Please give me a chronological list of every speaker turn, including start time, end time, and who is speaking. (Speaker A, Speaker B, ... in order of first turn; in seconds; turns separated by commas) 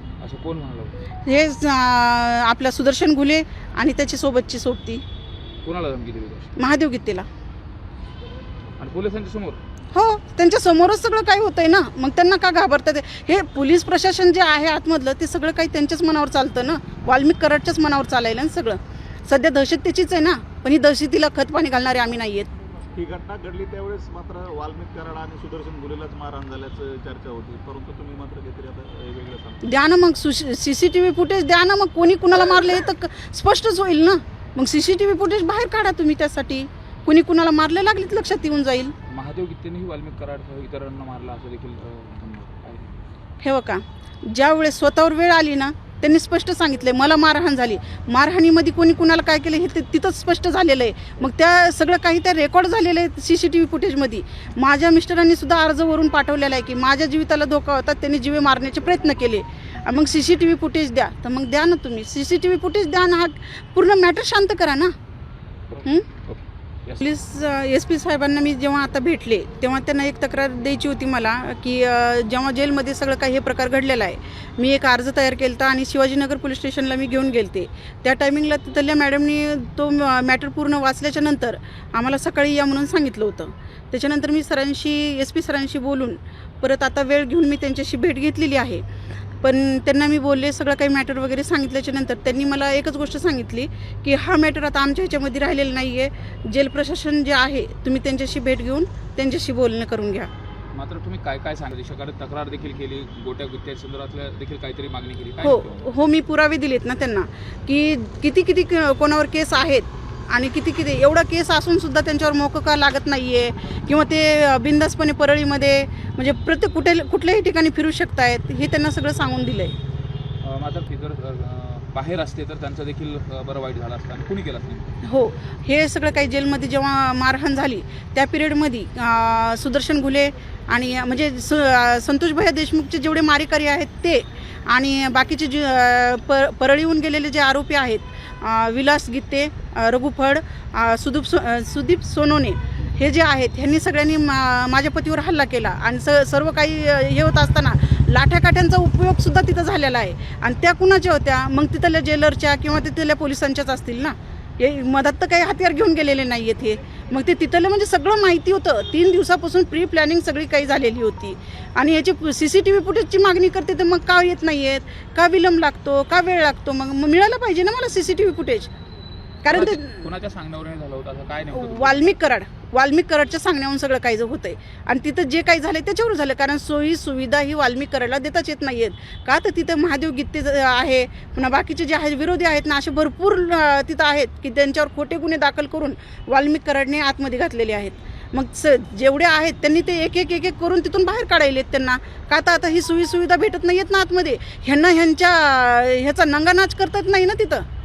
Speaker A: 0.2-0.9, Speaker B: 1.2-5.0, Speaker A: 5.6-6.5, Speaker B: 6.6-7.3, Speaker A: 8.8-9.6, Speaker B: 9.9-22.5, Speaker C: 22.9-29.6, Speaker B: 29.6-38.9, Speaker A: 39.1-43.0, Speaker B: 43.4-64.9, Speaker A: 65.7-67.0, Speaker B: 67.0-88.8, Speaker B: 89.4-100.3, Speaker A: 100.7-105.9, Speaker B: 105.4-119.7, Speaker A: 120.4-124.9, Speaker B: 125.0-168.7, Speaker B: 169.4-170.0, Speaker A: 169.5-172.1, Speaker B: 171.5-197.7